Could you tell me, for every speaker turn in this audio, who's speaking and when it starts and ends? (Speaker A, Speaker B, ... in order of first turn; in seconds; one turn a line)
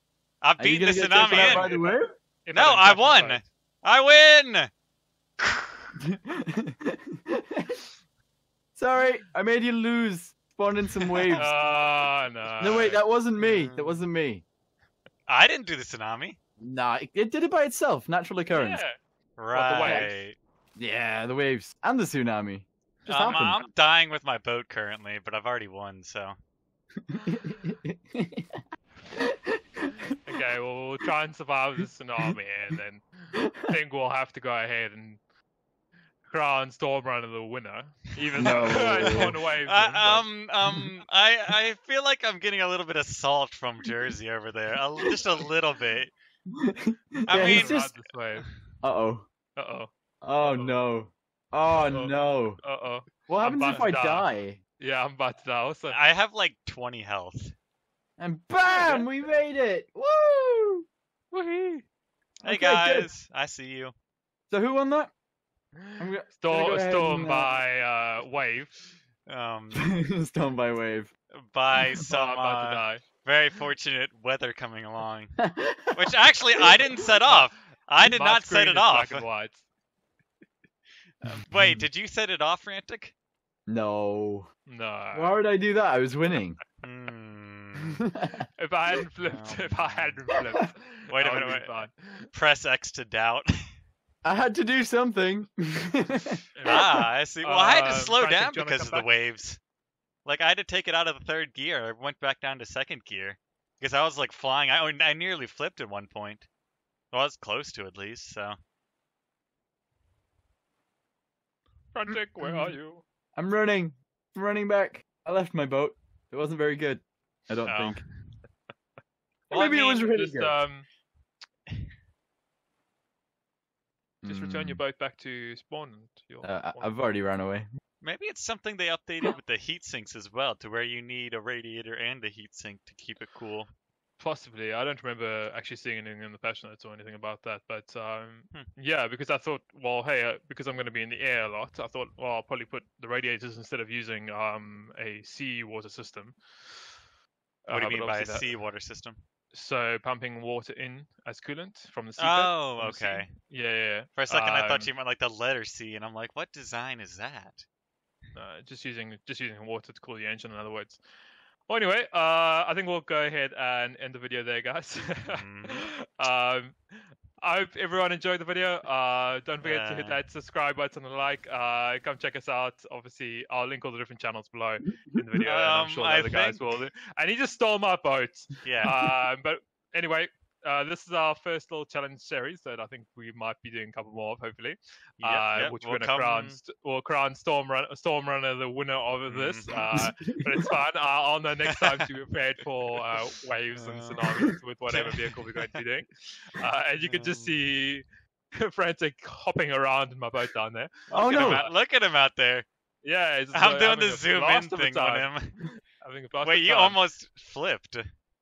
Speaker A: 0.4-1.8
Speaker B: 0.6-2.1
Speaker C: 1.1-3.4
Speaker A: 2.5-4.7
Speaker A: 5.4-5.8
Speaker B: 6.1-7.8
Speaker B: 8.8-11.5
Speaker A: 11.1-11.5
Speaker C: 11.3-13.0
Speaker B: 12.6-14.4
Speaker A: 12.7-14.0
Speaker A: 15.3-16.4
Speaker B: 16.6-18.8
Speaker C: 18.5-18.9
Speaker A: 19.4-20.4
Speaker C: 19.5-20.2
Speaker B: 19.8-20.1
Speaker B: 20.8-23.6
Speaker C: 23.0-23.7
Speaker A: 23.1-26.4
Speaker B: 27.2-28.6
Speaker B: 29.2-29.9
Speaker C: 30.2-35.2
Speaker C: 36.3-40.3
Speaker A: 38.4-46.1
Speaker B: 38.4-39.4
Speaker B: 46.5-47.9
Speaker C: 47.3-48.5
Speaker A: 47.3-47.8
Speaker B: 48.8-49.3
Speaker C: 49.6-50.9
Speaker B: 50.2-52.6
Speaker C: 51.7-54.3
Speaker B: 53.3-54.6
Speaker C: 54.8-56.0
Speaker A: 55.9-57.5
Speaker B: 58.2-60.9
Speaker C: 58.7-59.1
Speaker C: 61.3-61.8
Speaker B: 62.4-63.1
Speaker A: 62.4-63.9
Speaker B: 64.5-65.1
Speaker C: 65.9-68.8
Speaker B: 66.0-67.6
Speaker A: 69.3-69.9
Speaker B: 69.7-71.1
Speaker A: 71.4-75.4
Speaker C: 72.1-73.0
Speaker B: 75.4-76.0
Speaker A: 75.9-79.3
Speaker C: 77.3-79.6
Speaker A: 81.3-83.1
Speaker B: 81.3-81.8
Speaker B: 83.7-84.5
Speaker C: 84.7-85.4
Speaker B: 85.1-86.6
Speaker A: 86.8-88.0
Speaker B: 88.0-88.4
Speaker C: 88.6-92.3
Speaker A: 89.2-90.2
Speaker A: 91.1-93.5
Speaker B: 94.2-96.9
Speaker C: 96.5-99.1
Speaker A: 96.7-99.6
Speaker A: 100.2-106.5
Speaker A: 107.1-108.5
Speaker C: 111.9-113.0
Speaker B: 112.4-112.8
Speaker B: 113.4-118.0
Speaker A: 117.7-118.1
Speaker A: 119.5-120.0
Speaker B: 119.5-120.6
Speaker C: 119.5-120.9
Speaker B: 124.2-124.8
Speaker C: 124.2-127.0
Speaker B: 126.4-127.7
Speaker A: 128.0-133.7
Speaker C: 134.2-146.8
Speaker C: 147.7-148.6
Speaker A: 147.7-149.2
Speaker C: 149.5-154.9
Speaker A: 152.2-153.3
Speaker A: 154.2-157.7
Speaker C: 158.3-161.0
Speaker C: 161.7-166.8
Speaker A: 165.3-165.8
Speaker C: 167.4-198.0
Speaker A: 169.6-170.2
Speaker A: 175.4-176.8
Speaker A: 178.6-179.0
Speaker A: 185.2-186.6
Speaker A: 189.3-189.9
Speaker B: 189.9-190.7
Speaker A: 191.6-192.1
Speaker A: 193.7-195.8
Speaker A: 197.0-197.6
Speaker C: 198.6-201.7
Speaker B: 201.1-201.7
Speaker A: 201.2-202.7
Speaker C: 203.0-207.0
Speaker A: 203.5-205.5
Speaker A: 206.4-208.0